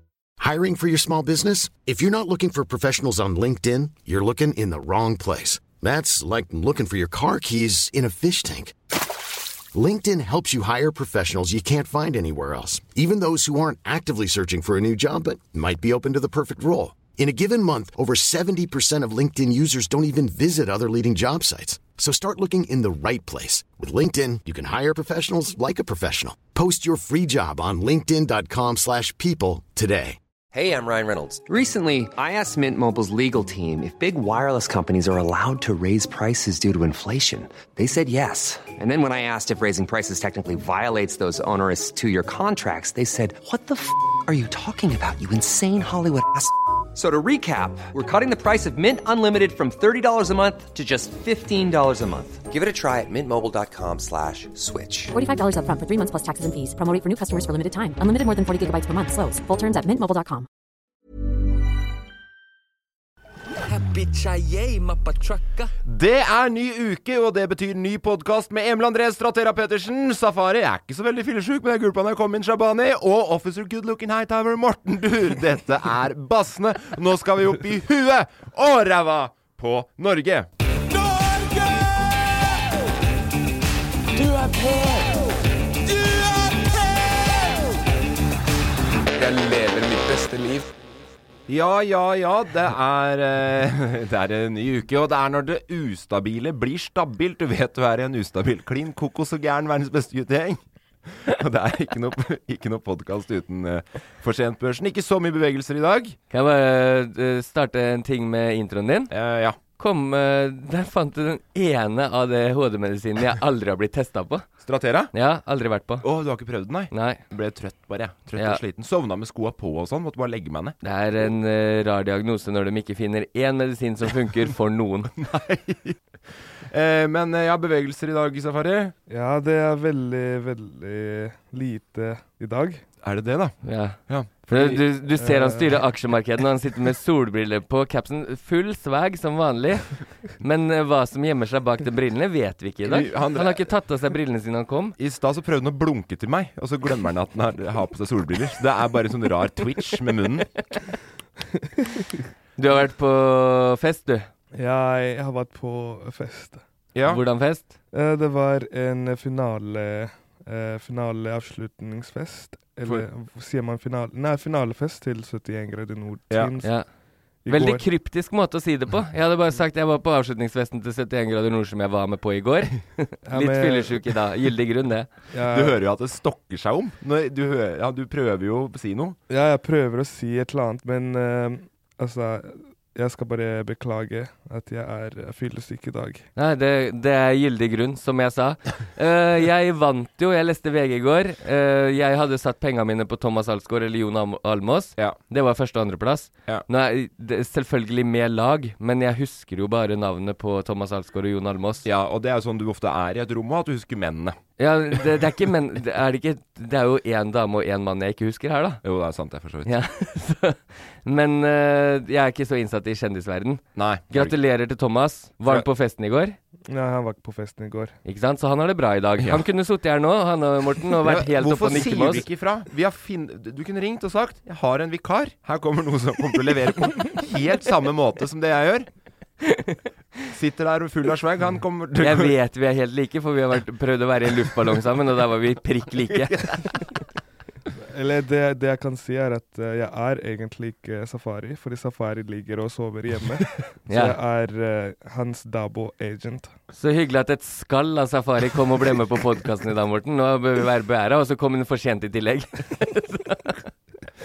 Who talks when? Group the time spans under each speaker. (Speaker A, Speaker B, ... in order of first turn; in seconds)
Speaker A: 0.4-8.7, 9.7-30.2
Speaker B: 30.5-55.1
Speaker C: 55.1-60.5
Speaker D: 63.6-65.7, 81.1-82.1, 84.2-85.3, 85.9-87.6, 89.1-90.7
Speaker E: 65.8-80.5, 91.5-106.2, 109.1-109.6, 114.6-115.1, 116.0-120.8, 125.1-128.9, 133.0-134.8, 142.8-143.7, 145.0-150.5, 156.9-157.2, 175.5-179.2, 201.8-204.4, 208.8-209.8, 213.7-214.4, 219.2-219.4, 221.0-228.9, 230.3-232.4, 236.0-236.7
Speaker F: 106.3-109.1, 109.8-114.5, 115.1-116.0, 116.9-117.2, 120.8-125.1, 133.6-144.9, 152.6-154.3, 157.1-157.7, 167.5-175.1, 186.3-201.8, 204.6-208.8, 209.6-216.4, 218.0-222.2, 229.4-229.8, 232.0-236.7, 243.9-244.2, 246.7-253.6
Speaker G: 129.1-132.8, 135.2-135.8, 154.5-156.6, 157.9-166.7, 167.4-167.8, 173.2-174.0, 175.3-175.8, 179.3-186.2, 216.7-217.9, 237.9-246.5